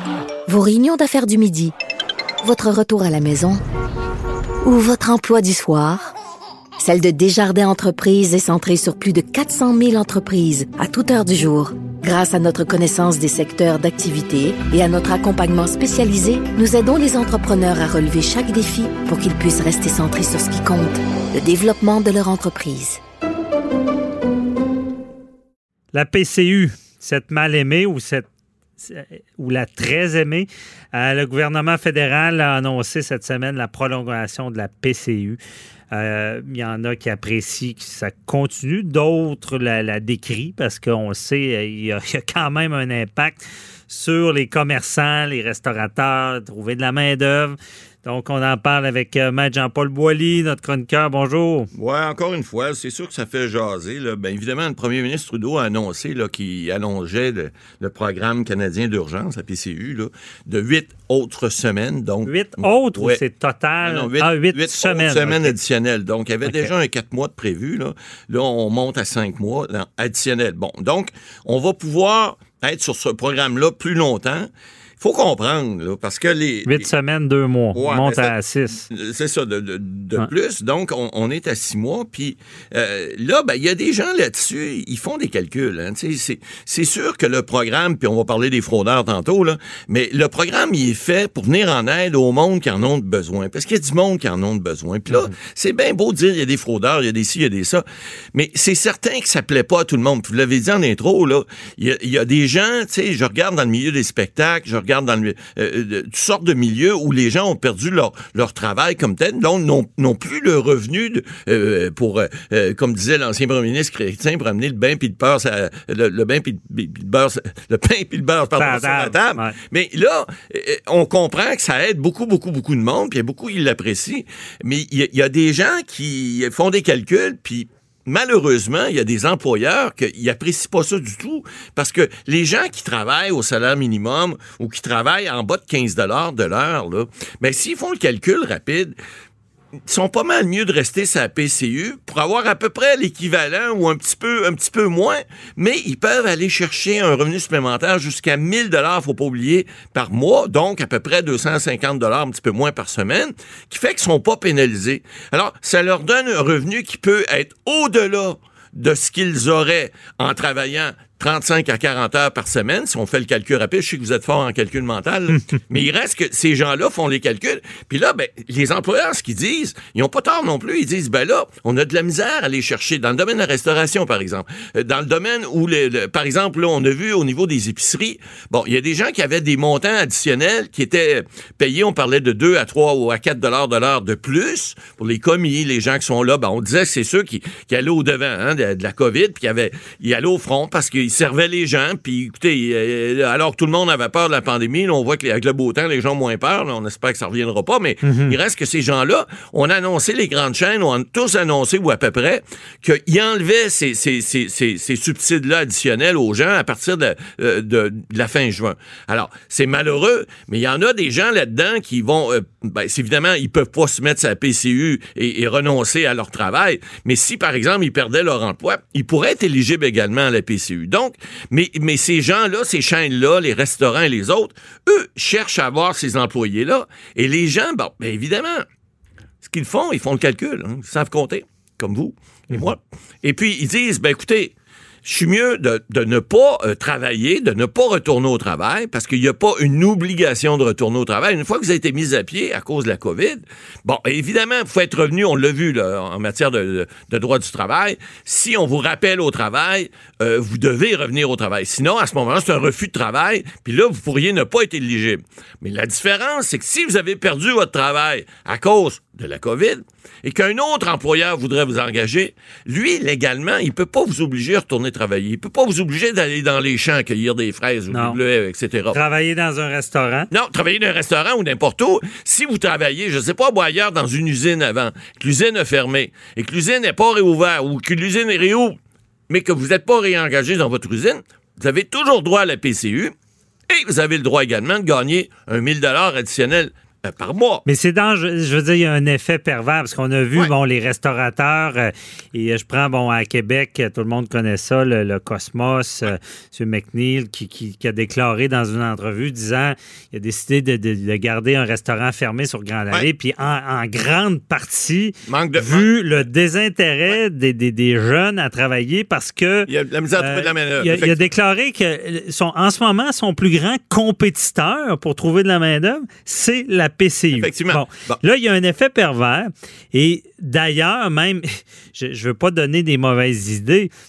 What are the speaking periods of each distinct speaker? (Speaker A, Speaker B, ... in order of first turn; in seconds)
Speaker A: 0.5-1.7, 2.4-3.6, 4.6-6.1, 6.8-23.0
Speaker B: 25.9-28.3, 28.8-35.4, 35.9-51.7, 62.2-65.5, 66.4-66.7, 76.7-78.8, 118.5-119.6, 198.0-198.3, 267.9-268.2, 268.9-270.3, 287.6-323.9
Speaker C: 51.7-63.2, 63.8-76.9, 77.7-78.3, 78.9-138.9, 139.8-228.6, 229.4-234.5, 235.0-269.0, 270.3-278.8, 279.3-283.1, 283.7-287.6, 305.2-305.9, 309.7-311.2, 317.3-318.2